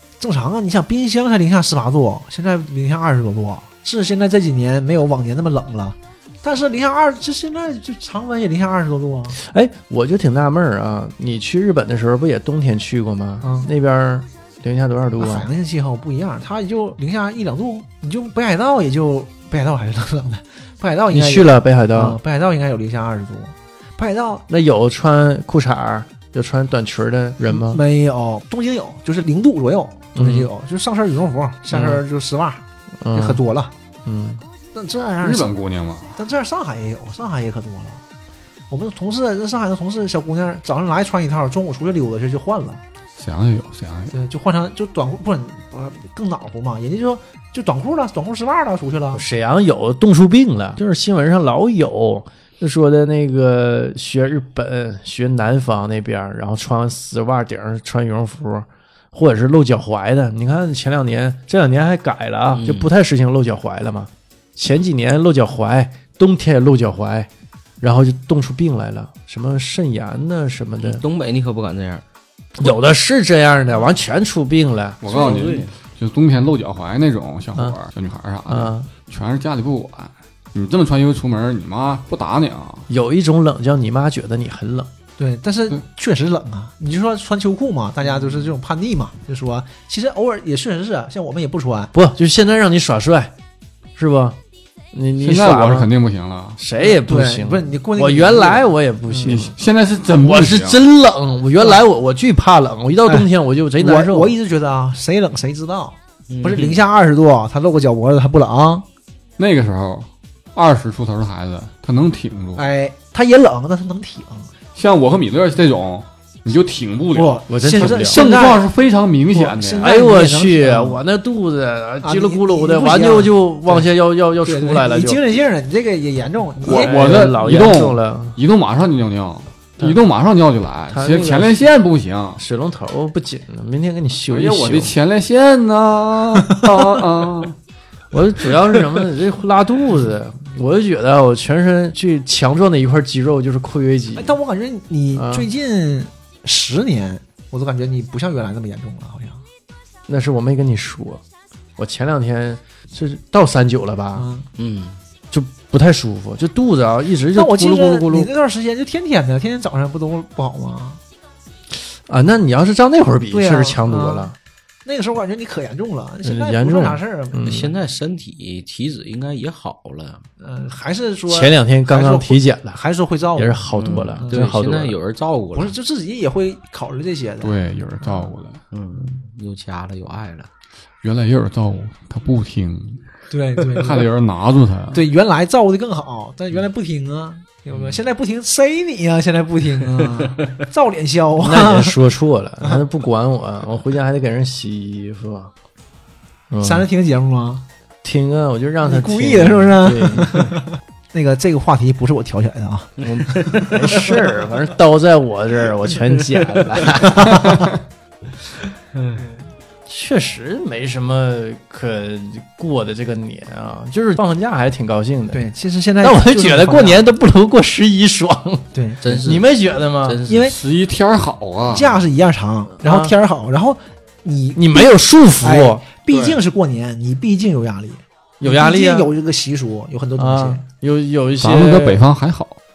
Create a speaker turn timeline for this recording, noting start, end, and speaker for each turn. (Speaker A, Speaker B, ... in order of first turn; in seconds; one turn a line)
Speaker A: 0.2-9.4
Speaker B: 9.3-15.5
Speaker A: 13.4-13.7
Speaker A: 15.2-24.4
Speaker B: 21.1-22.2
Speaker B: 24.5-27.8
Speaker A: 27.4-33.7
Speaker B: 30.1-30.5
Speaker B: 31.7-32.0
Speaker B: 33.0-33.4
Speaker B: 34.0-34.4
Speaker A: 34.7-35.5
Speaker C: 35.2-36.2
Speaker A: 36.1-38.0
Speaker A: 38.7-42.8
Speaker C: 43.1-44.1
Speaker A: 44.1-49.2
Speaker B: 49.1-67.3
Speaker D: 62.5-62.9
Speaker B: 67.8-71.0
Speaker D: 70.8-72.0
Speaker B: 72.6-75.0
Speaker C: 75.0-82.9
Speaker D: 75.0-75.7
Speaker B: 78.5-78.9
Speaker B: 82.9-84.9
Speaker A: 85.2-91.9
Speaker B: 91.9-93.3
Speaker B: 94.0-94.4
Speaker B: 94.9-95.9
Speaker C: 95.2-96.6
Speaker B: 96.5-99.6
Speaker A: 96.8-99.4
Speaker C: 99.3-100.8
Speaker B: 100.1-104.3
Speaker A: 103.1-108.8
Speaker D: 106.3-106.8
Speaker C: 109.4-112.6
Speaker A: 112.5-114.5
Speaker C: 114.7-119.9
Speaker A: 117.1-118.7
Speaker B: 117.5-118.4
Speaker A: 119.3-121.0
Speaker B: 119.8-125.2
Speaker A: 122.0-123.9
Speaker A: 124.4-127.2
Speaker B: 126.6-128.4
Speaker C: 126.6-132.4
Speaker B: 130.9-131.7
Speaker B: 132.4-134.9
Speaker C: 134.3-137.6
Speaker B: 138.1-144.3
Speaker A: 144.1-149.4
Speaker B: 145.1-145.5
Speaker B: 150.1-151.2
Speaker B: 151.8-154.2
Speaker A: 154.1-154.5
Speaker D: 154.6-155.0
Speaker B: 155.3-158.3
Speaker A: 157.3-161.0
Speaker B: 161.7-164.3
Speaker A: 163.3-164.3
Speaker A: 164.8-167.4
Speaker B: 166.2-167.7
Speaker D: 167.4-170.2
Speaker A: 170.4-174.5
Speaker B: 171.3-172.8
Speaker B: 173.3-175.0
Speaker D: 173.8-175.7
Speaker A: 175.5-178.3
Speaker C: 177.4-178.6
Speaker D: 178.7-180.5
Speaker C: 181.0-183.1
Speaker A: 183.3-184.1
Speaker C: 183.7-185.0
Speaker A: 184.9-192.0
Speaker D: 187.7-188.0
Speaker D: 190.0-190.3
Speaker B: 191.4-195.5
Speaker B: 196.5-196.9
Speaker A: 196.6-197.6
Speaker B: 198.0-200.6
Speaker A: 198.8-204.1
Speaker D: 203.0-203.8
Speaker B: 203.0-207.5
Speaker A: 206.9-207.7
Speaker D: 208.9-209.2
Speaker A: 209.2-209.4
Speaker B: 209.8-215.4
Speaker A: 215.3-217.1
Speaker B: 216.0-220.2
Speaker A: 218.7-219.0
Speaker D: 219.0-219.5
Speaker D: 220.0-220.5
Speaker A: 220.3-220.6
Speaker C: 220.5-222.0
Speaker A: 221.7-224.8
Speaker B: 222.8-223.1
Speaker B: 224.5-225.8
Speaker A: 225.4-230.6
Speaker B: 228.4-229.1
Speaker B: 230.2-232.0
Speaker C: 231.4-232.6